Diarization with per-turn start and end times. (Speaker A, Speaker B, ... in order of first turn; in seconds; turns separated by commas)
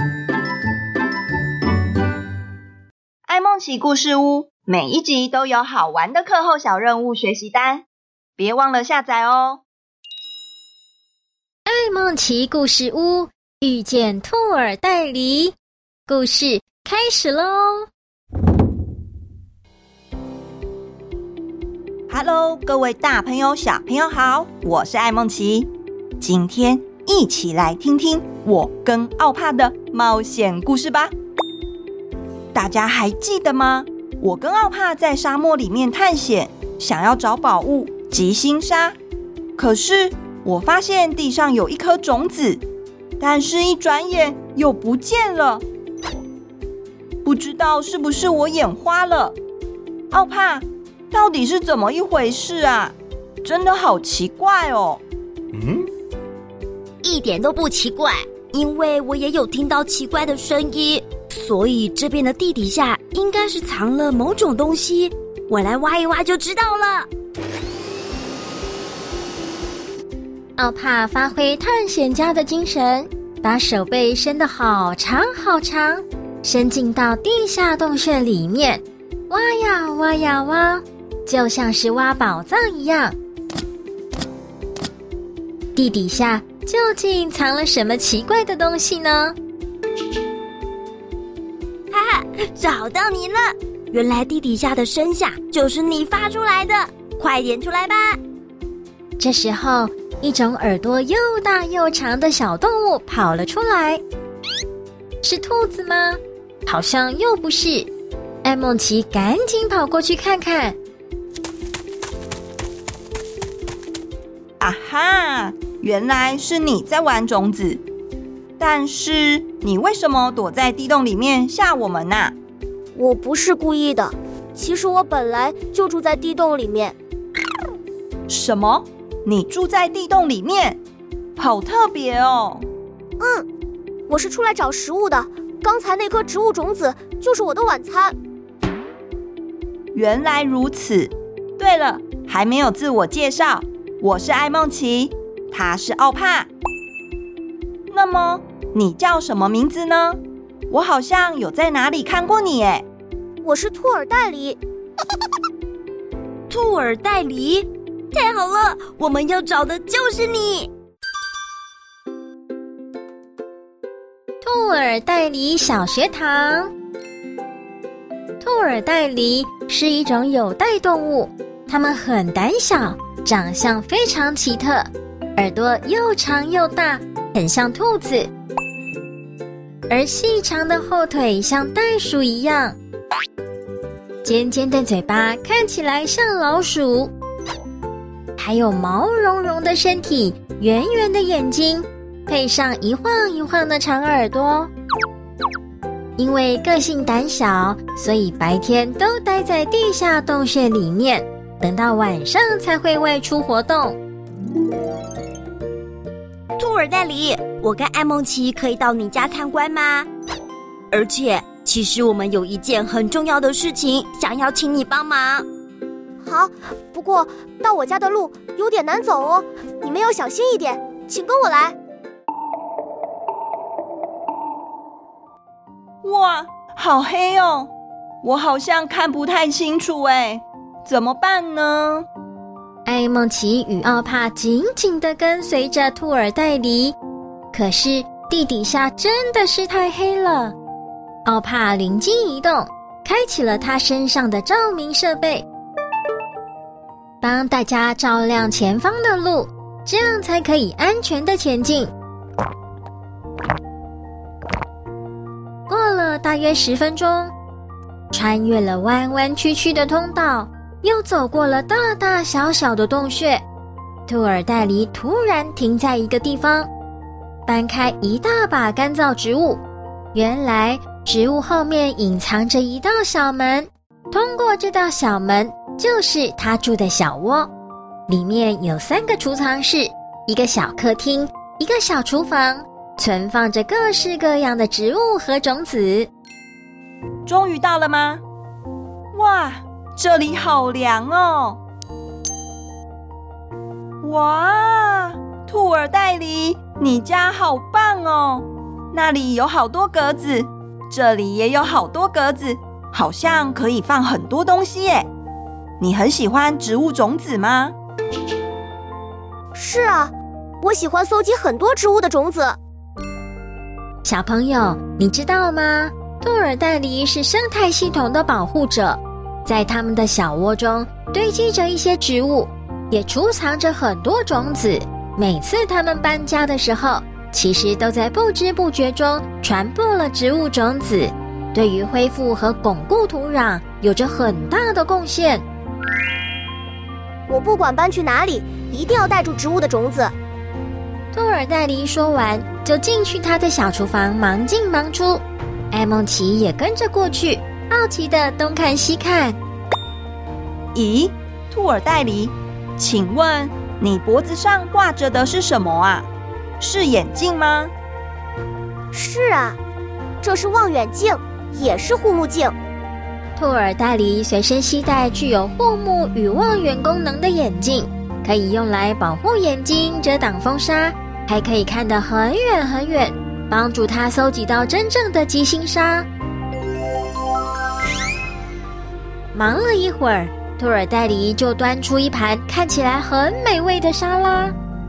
Speaker A: 3.3-7.8, Speaker A: 8.4-9.6, Speaker B: 11.7-15.6, Speaker B: 16.1-17.9, Speaker A: 22.1-25.7, Speaker A: 26.2-31.1, Speaker A: 32.5-39.0, Speaker A: 39.6-42.6, Speaker A: 43.2-45.6, Speaker A: 47.2-49.4, Speaker A: 50.1-55.0, Speaker C: 57.0-67.1, Speaker B: 70.6-83.2, Speaker B: 85.8-89.4, Speaker C: 91.9-98.2, Speaker B: 99.2-104.0, Speaker B: 105.2-107.9, Speaker B: 108.4-110.8, Speaker A: 114.6-117.8, Speaker A: 118.6-122.3, Speaker D: 123.0-127.0, Speaker A: 128.3-130.8, Speaker A: 131.4-132.7, Speaker D: 133.2-133.5, Speaker D: 134.1-138.2, Speaker A: 139.9-146.5, Speaker A: 147.9-152.8, Speaker D: 153.4-154.6, Speaker C: 156.5-160.7, Speaker B: 164.4-166.7, Speaker B: 168.4-178.3, Speaker B: 179.9-182.8, Speaker B: 184.2-187.1, Speaker B: 188.4-194.7, Speaker B: 196.2-204.0, Speaker C: 206.6-210.1, Speaker C: 210.9-215.5, Speaker D: 216.2-221.8, Speaker A: 226.0-227.7, Speaker A: 228.2-232.1, Speaker B: 232.9-237.0, Speaker B: 237.5-240.6, Speaker B: 241.2-245.5, Speaker B: 247.2-251.9, Speaker B: 255.7-257.3, Speaker B: 258.1-263.4, Speaker B: 264.1-266.7, Speaker B: 267.5-269.6, Speaker B: 270.1-277.5, Speaker B: 278.1-286.1, Speaker A: 287.3-288.2, Speaker A: 289.1-291.6, Speaker A: 294.0-305.1, Speaker A: 305.8-307.8, Speaker D: 309.5-312.6, Speaker B: 314.1-335.4, Speaker D: 337.3-340.1, Speaker B: 341.1-349.4, Speaker A: 350.7-356.1, Speaker A: 356.6-357.7, Speaker D: 358.9-359.6, Speaker D: 360.2-362.6, Speaker B: 363.4-376.1, Speaker B: 379.3-384.6